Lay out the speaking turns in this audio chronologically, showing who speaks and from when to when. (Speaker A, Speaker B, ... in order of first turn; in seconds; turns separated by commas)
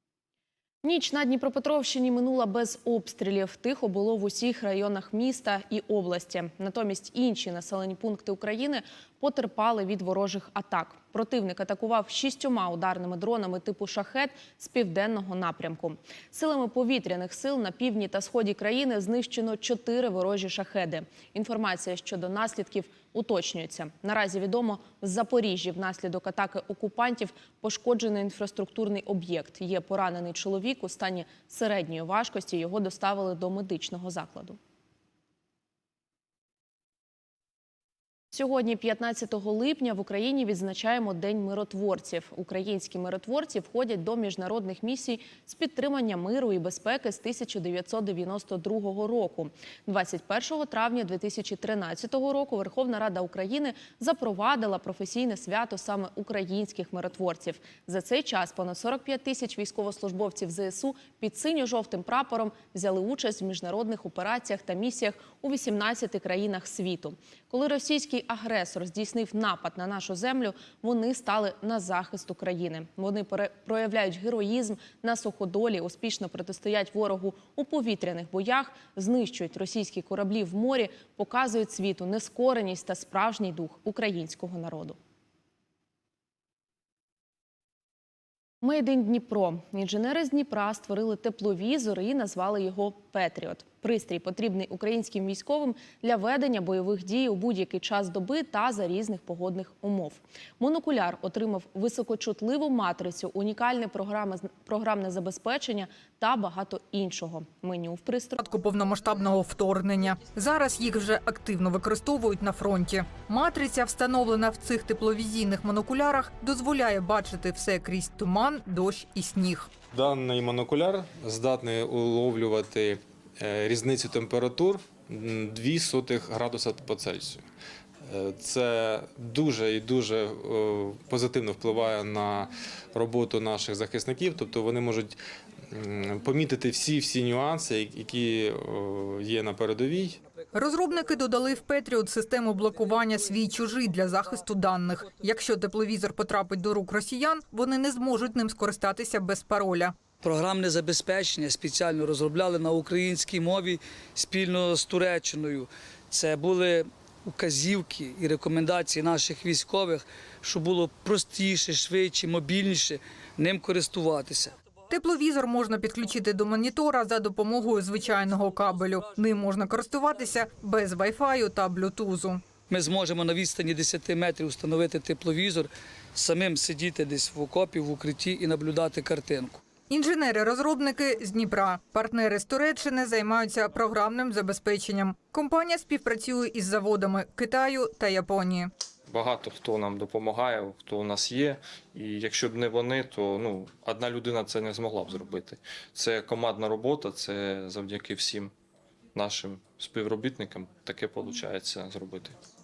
Speaker A: 0.8-34.6, Speaker A: 38.3-85.0, Speaker A: 88.6-108.4, Speaker B: 108.4-119.7, Speaker C: 119.9-127.4, Speaker C: 128.1-135.2, Speaker C: 135.7-140.2, Speaker B: 140.5-149.9, Speaker D: 150.2-164.5, Speaker B: 164.9-172.4, Speaker D: 172.7-179.6, Speaker B: 179.9-188.7, Speaker E: 189.1-198.5, Speaker E: 199.1-202.3